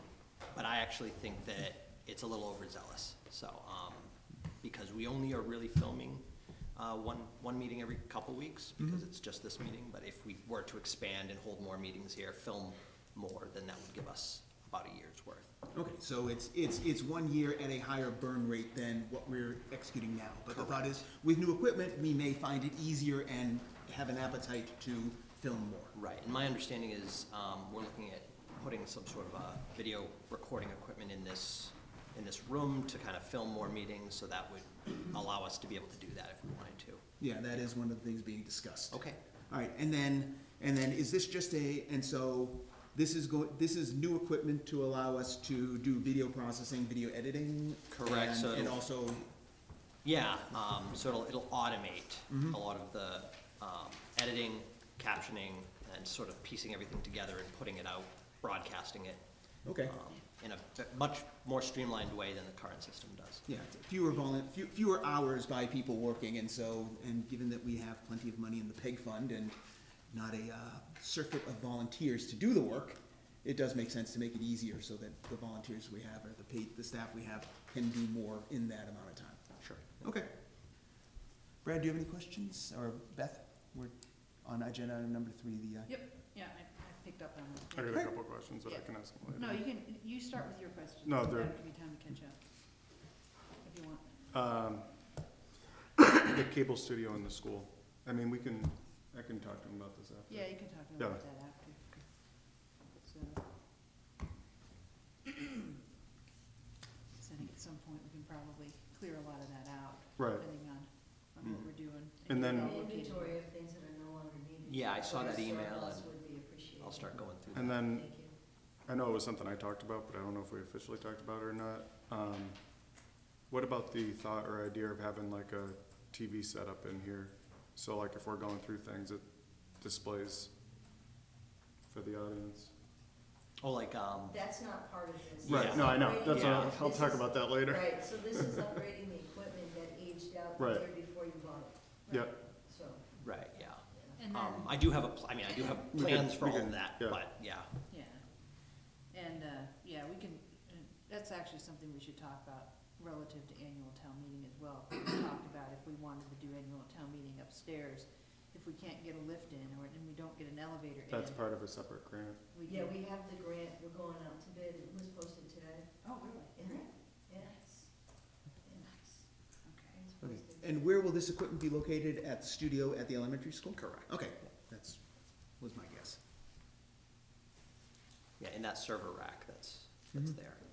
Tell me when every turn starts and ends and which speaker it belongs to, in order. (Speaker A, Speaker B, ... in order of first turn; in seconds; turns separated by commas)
Speaker A: 0.5-15.5, Speaker B: 8.8-9.0, Speaker B: 15.7-25.9, Speaker A: 20.5-20.8, Speaker A: 25.9-37.0, Speaker B: 37.2-49.3, Speaker A: 38.9-39.2, Speaker A: 47.9-48.8, Speaker A: 50.0-63.4, Speaker B: 52.3-52.6, Speaker B: 59.6-60.0, Speaker B: 63.5-69.6, Speaker B: 70.1-81.0, Speaker A: 79.6-80.1, Speaker B: 81.6-85.9, Speaker C: 85.8-87.9, Speaker D: 87.7-89.6, Speaker C: 88.6-93.0, Speaker D: 91.0-91.6, Speaker C: 93.6-94.2, Speaker D: 94.3-95.1, Speaker D: 96.0-101.2, Speaker C: 100.3-103.5, Speaker C: 107.2-113.4, Speaker D: 110.2-110.5, Speaker D: 112.2-112.7, Speaker E: 112.5-118.3, Speaker A: 114.7-117.8, Speaker D: 117.5-130.5, Speaker D: 131.9-132.7, Speaker A: 133.6-134.6, Speaker E: 134.3-143.2, Speaker A: 135.4-136.7, Speaker D: 135.4-138.7, Speaker D: 140.6-140.9, Speaker D: 142.1-142.4, Speaker A: 143.2-147.7, Speaker E: 143.9-144.2, Speaker C: 144.2-144.9, Speaker B: 145.9-146.3, Speaker D: 145.9-147.2, Speaker C: 147.9-161.4, Speaker D: 161.1-162.4, Speaker C: 162.5-162.9, Speaker E: 162.7-169.2, Speaker C: 166.0-166.6, Speaker C: 169.6-170.0, Speaker E: 170.0-170.6, Speaker B: 170.2-176.2, Speaker A: 173.7-174.5, Speaker A: 178.4-180.6